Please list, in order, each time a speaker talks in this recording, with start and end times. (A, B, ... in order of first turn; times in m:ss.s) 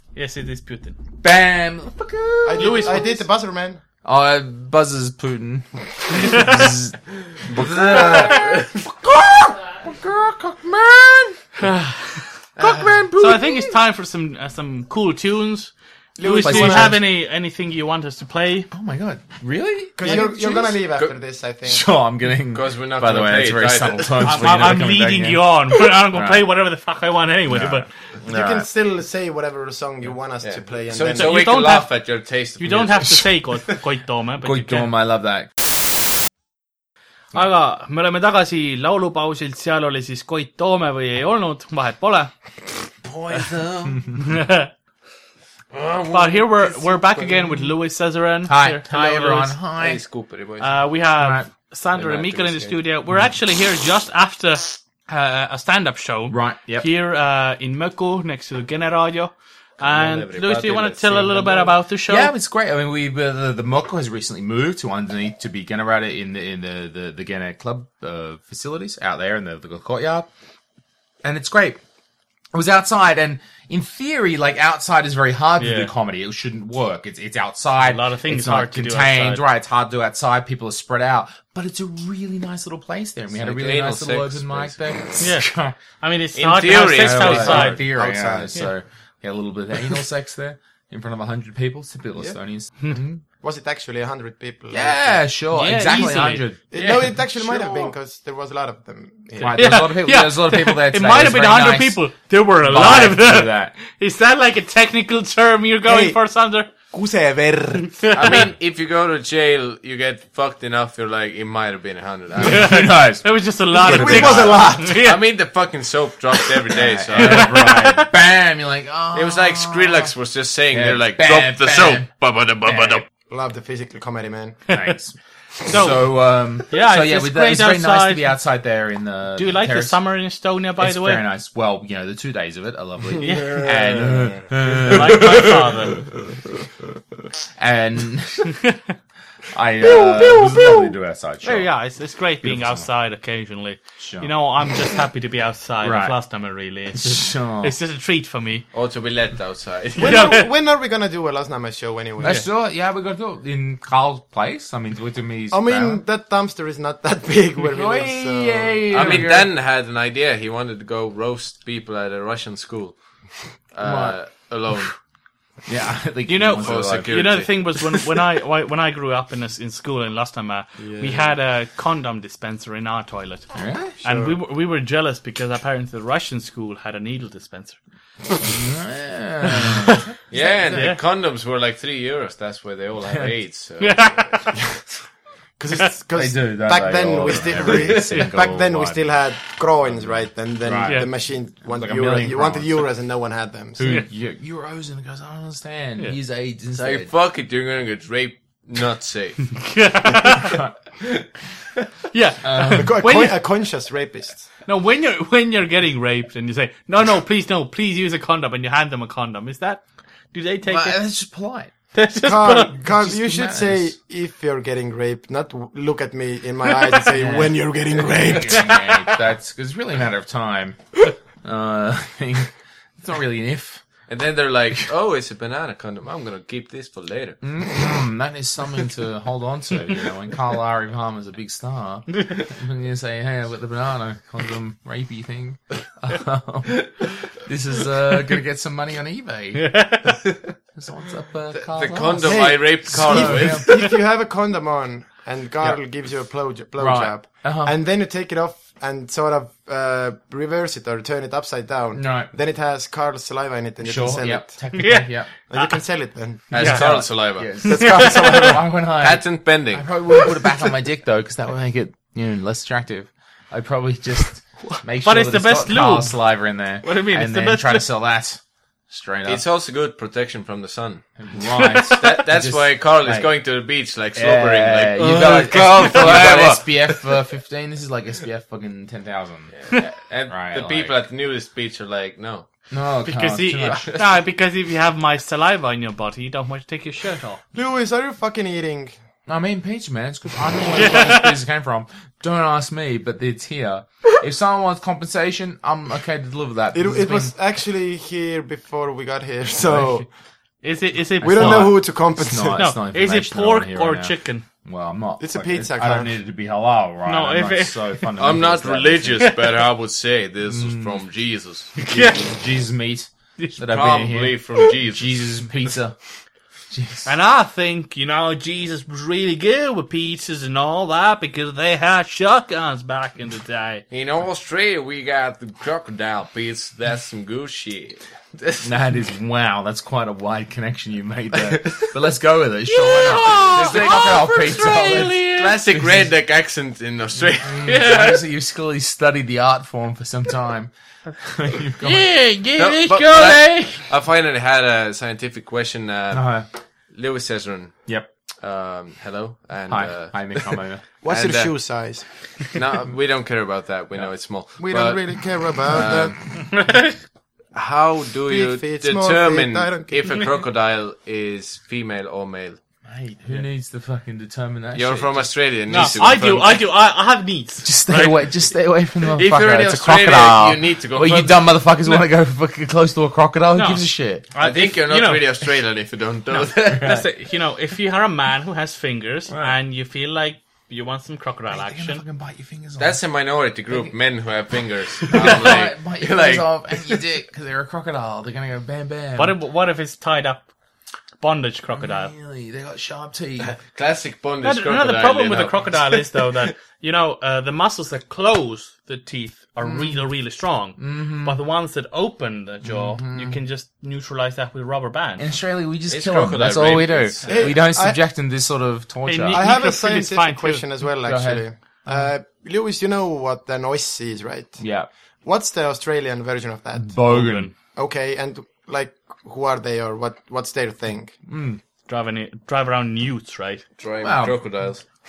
0:00.2-0:01.0 A
0:01.2-0:03.1 B
0:02.4-0:03.8 C
0:02.6-0:03.2 A
0:04.0-0:11.4 B
0:06.2-0:06.5 A
0:07.6-0:08.6 D
0:11.6-0:18.7 A
0:12.6-0:13.8 B
0:16.2-0:17.0 C
0:16.4-0:17.0 B
0:18.7-0:20.8 B
0:20.0-0:21.9 C
0:21.7-0:26.5 B
0:22.5-0:24.6 D
0:24.2-0:27.9 A
0:27.5-0:28.7 B
0:28.2-0:31.3 C
0:30.4-0:33.3 D
0:31.1-0:31.9 A
0:32.6-0:34.9 A
0:34.4-0:35.5 B
0:37.3-0:42.3 A
0:43.1-0:44.0 D
0:43.3-0:44.2 B
0:44.2-0:44.7 A
0:45.7-0:47.7 D
0:46.1-0:49.6 A
0:48.5-0:50.0 B
0:49.8-0:50.8 D
0:50.6-1:02.3 A
0:51.2-0:51.5 B
0:51.9-0:52.8 D
0:56.3-0:56.9 B
0:59.8-1:01.8 D
1:02.1-1:10.3 B
1:11.2-1:11.8 B
1:12.5-1:25.8 B
1:15.6-1:15.9 A
1:17.8-1:19.4 A
1:23.4-1:24.8 D
1:25.2-1:25.5 A
1:26.0-1:27.8 A
1:26.4-1:27.8 D
1:26.9-1:33.2 B
1:27.6-1:28.6 C
1:33.4-1:35.3 C
1:34.7-1:37.9 B
1:35.5-1:36.5 A
1:35.9-1:39.8 C
1:36.7-1:37.9 D
1:39.4-1:42.0 B
1:39.5-1:46.7 A
1:42.6-1:43.7 B
1:45.9-1:46.2 C
1:46.9-1:48.1 C
1:48.0-1:48.5 A
1:48.1-1:52.8 D
1:52.4-1:54.9 B
1:52.4-1:55.2 A
1:53.8-1:54.9 C
1:55.0-1:57.7 D
1:56.7-2:00.1 B
1:57.2-1:58.1 A
1:59.1-2:03.0 D
2:00.7-2:02.1 B
2:02.6-2:03.0 B
2:03.3-2:04.6 C
2:04.7-2:10.0 B
2:05.6-2:06.0 A
2:06.7-2:08.3 A
2:09.4-2:11.2 A
2:10.8-2:15.8 B
2:13.2-2:13.7 A
2:13.2-2:14.4 C
2:14.6-2:16.0 A
2:17.6-2:18.6 B
2:19.5-2:21.7 B
2:19.8-2:20.9 A
2:21.4-2:28.6 A
2:22.4-2:22.9 B
2:24.0-2:24.3 B
2:25.8-2:26.2 B
2:26.9-2:27.8 B
2:28.7-2:30.4 D
2:30.0-2:32.4 C
2:30.0-2:30.5 A
2:32.2-2:36.0 B
2:35.5-2:39.2 C
2:37.6-2:39.5 B
2:38.9-2:43.0 D
2:43.7-2:44.9 D
2:43.8-2:44.2 B
2:45.7-2:47.2 B
2:46.3-2:53.5 A
2:46.6-2:48.0 D
2:50.8-2:51.3 D
2:53.5-2:54.0 B
2:54.0-2:54.4 C
2:54.0-2:57.8 A
2:58.4-3:00.9 B
3:00.3-3:04.5 D
3:00.7-3:01.0 A
3:03.8-3:04.6 A
3:05.6-3:14.0 C
3:06.1-3:09.0 B
3:07.7-3:08.0 D
3:10.0-3:11.1 B
3:10.8-3:11.1 A
3:11.6-3:12.9 B
3:13.8-3:17.1 B
3:16.8-3:19.7 D
3:19.6-3:20.6 A
3:22.1-3:23.4 A
3:22.4-3:23.0 B
3:22.7-3:24.5 C
3:24.7-3:31.0 A
3:30.7-3:31.7 B
3:31.9-3:32.8 A
3:32.2-3:38.8 C
3:32.7-3:34.0 B
3:37.1-3:43.8 B
3:44.1-3:47.4 D
3:47.4-3:59.9 B
3:59.6-4:00.2 A
4:00.8-4:03.8 B
4:01.6-4:03.9 D
4:02.2-4:14.6 C
4:06.8-4:07.7 B
4:11.9-4:12.3 B
4:13.8-4:15.3 B
4:14.7-4:15.8 A
4:15.5-4:16.6 C
4:16.5-4:17.5 D
4:16.5-4:16.9 A
4:16.6-4:29.4 B
4:17.6-4:18.6 A
4:17.7-4:18.5 C
4:19.0-4:19.9 D
4:25.0-4:26.2 A
4:26.8-4:27.8 A
4:29.2-4:31.0 D
4:31.2-4:33.3 B
4:31.5-4:32.0 A
4:32.0-4:37.0 D
4:34.2-4:39.8 B
4:39.5-4:42.5 D
4:40.3-4:41.0 B
4:42.7-4:43.9 B
4:43.0-4:47.4 A
4:43.8-4:44.0 D
4:47.5-4:48.9 C
4:49.3-4:57.3 B
4:50.7-4:51.4 A
4:56.7-5:00.1 C
4:59.6-5:00.0 B
5:00.6-5:01.8 A
5:01.2-5:02.7 C
5:01.2-5:09.3 B
5:02.6-5:04.4 A
5:05.2-5:06.1 C
5:07.0-5:08.1 A
5:08.2-5:11.8 D
5:10.5-5:11.0 B
5:11.8-5:12.3 A
5:12.0-5:16.0 B
5:13.6-5:15.5 D
5:16.7-5:17.1 B
5:17.0-5:23.8 A
5:23.9-5:28.7 D
5:28.6-5:36.0 B
5:31.4-5:31.9 D
5:32.7-5:35.6 A
5:33.5-5:34.2 D
5:35.0-5:37.8 D
5:37.4-5:43.8 B
5:37.6-5:38.2 A
5:41.8-5:43.2 A
5:42.6-5:46.4 D
5:46.1-5:46.5 B
5:46.9-5:47.8 D
5:48.4-5:51.5 D
5:49.7-5:50.8 B
5:51.0-5:52.0 C
5:52.5-5:56.2 D
5:54.6-5:56.2 C
5:56.4-5:57.0 A
5:57.5-6:02.6 D
5:58.3-6:00.2 C
6:02.9-6:06.0 B
6:04.7-6:06.6 D
6:05.7-6:08.3 A
6:07.6-6:14.2 B
6:09.1-6:11.5 D
6:13.5-6:15.3 A
6:14.4-6:17.0 D
6:16.3-6:22.0 A
6:16.7-6:17.1 B
6:19.3-6:19.6 B
6:21.5-6:23.0 B
6:22.8-6:27.0 D
6:25.1-6:29.4 B
6:29.2-6:30.5 A
6:31.2-6:32.1 A
6:31.7-6:33.5 B
6:33.4-6:36.3 D
6:34.4-6:45.3 A
6:39.6-6:40.0 B
6:40.8-6:41.4 B
6:42.6-6:43.4 B
6:45.2-6:49.4 B
6:45.9-6:47.5 D
6:47.3-6:48.0 C
6:49.0-6:50.6 A
6:49.3-6:54.6 C
6:51.0-6:52.1 B
6:54.6-6:54.9 B
6:55.2-6:57.0 C
6:56.8-6:57.5 B
6:57.0-6:57.5 A
6:57.7-7:01.2 C
7:01.3-7:01.6 B
7:01.9-7:03.6 A
7:03.8-7:04.8 D
7:04.0-7:04.4 B